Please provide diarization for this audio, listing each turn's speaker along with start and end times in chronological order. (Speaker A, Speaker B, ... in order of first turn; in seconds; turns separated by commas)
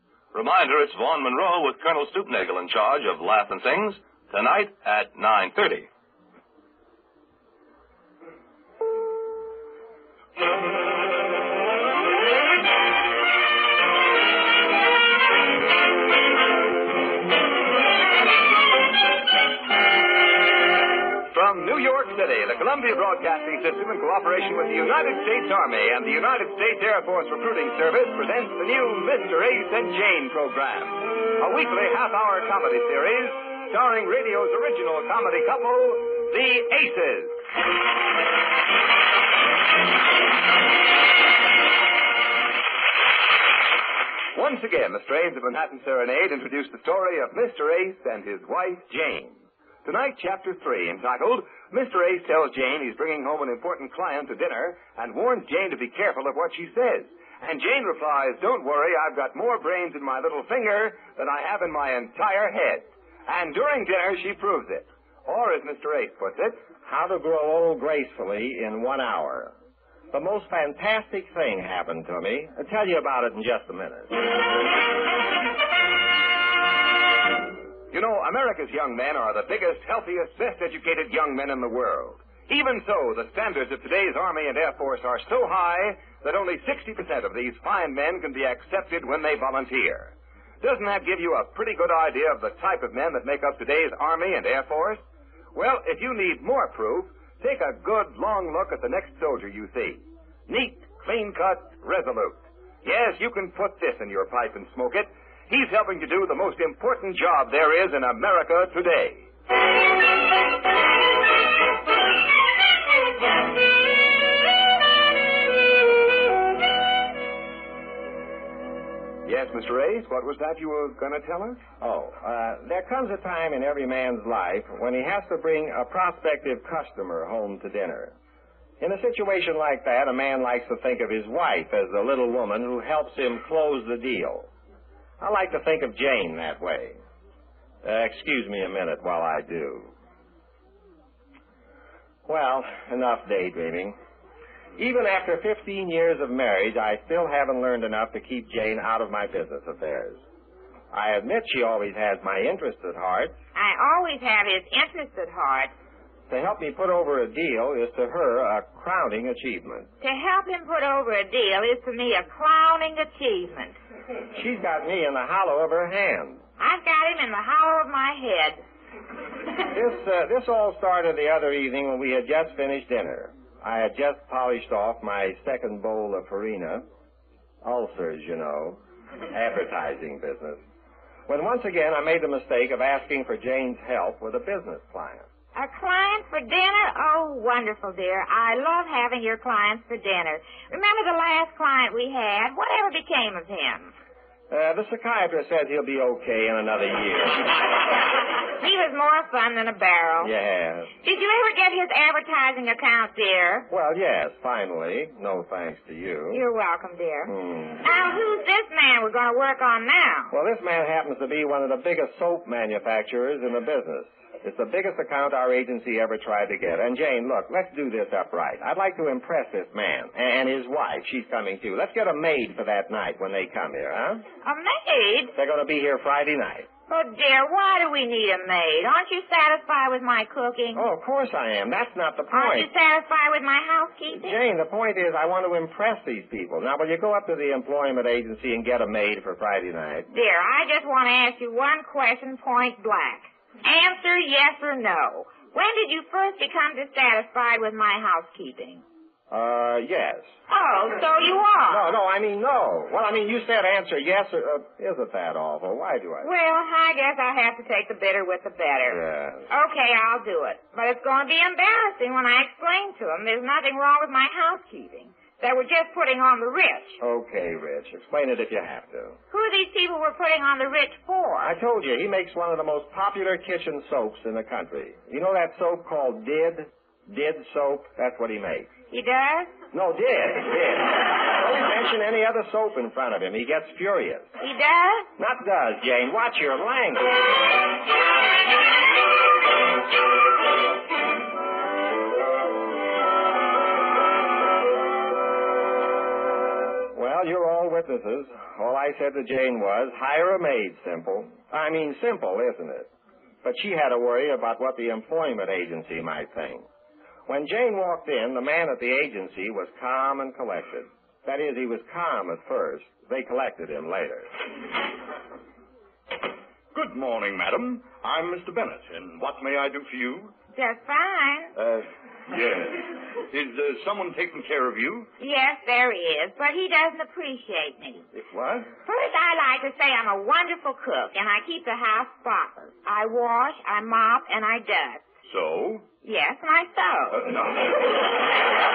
Speaker A: 0.3-5.9, Speaker B: 21.3-37.4, Speaker B: 44.3-66.6, Speaker C: 66.8-69.5, Speaker C: 70.1-74.2, Speaker B: 77.9-95.0, Speaker B: 95.5-109.3, Speaker B: 119.2-121.6, Speaker C: 121.8-128.2, Speaker C: 128.8-134.5, Speaker C: 135.2-137.0, Speaker C: 137.8-139.9, Speaker C: 142.2-144.0, Speaker C: 144.8-150.2, Speaker C: 150.9-153.4, Speaker D: 153.5-155.7, Speaker C: 156.3-159.9, Speaker D: 160.0-163.8, Speaker C: 164.3-166.4, Speaker D: 166.6-168.6, Speaker C: 169.7-176.8, Speaker C: 177.6-178.8, Speaker C: 179.3-180.6, Speaker C: 181.3-185.3, Speaker D: 185.5-193.9, Speaker C: 194.5-197.6, Speaker D: 198.6-200.3, Speaker C: 200.2-200.9, Speaker D: 201.0-203.7, Speaker C: 203.7-206.4, Speaker D: 206.3-210.3, Speaker C: 207.2-207.8, Speaker C: 210.3-224.2, Speaker D: 224.4-225.3, Speaker C: 225.3-226.7, Speaker D: 226.9-230.8, Speaker C: 230.7-232.7, Speaker D: 232.3-234.3, Speaker C: 234.1-240.1, Speaker D: 240.1-248.8, Speaker C: 249.3-250.3, Speaker D: 250.5-252.0, Speaker C: 251.7-256.3, Speaker D: 256.2-259.0, Speaker C: 258.9-259.5, Speaker D: 259.5-267.0, Speaker C: 267.0-269.2, Speaker D: 269.3-271.5, Speaker C: 271.4-278.7, Speaker D: 278.9-279.5, Speaker C: 279.7-284.3, Speaker D: 284.4-285.1, Speaker C: 285.2-287.1, Speaker C: 296.9-302.9, Speaker C: 303.4-306.6, Speaker C: 307.3-314.3, Speaker E: 316.7-320.3, Speaker D: 320.6-321.5, Speaker E: 321.6-325.1, Speaker D: 325.2-328.1, Speaker E: 328.1-328.7, Speaker D: 328.9-335.1, Speaker E: 335.2-335.8, Speaker D: 336.0-337.3, Speaker E: 337.1-338.3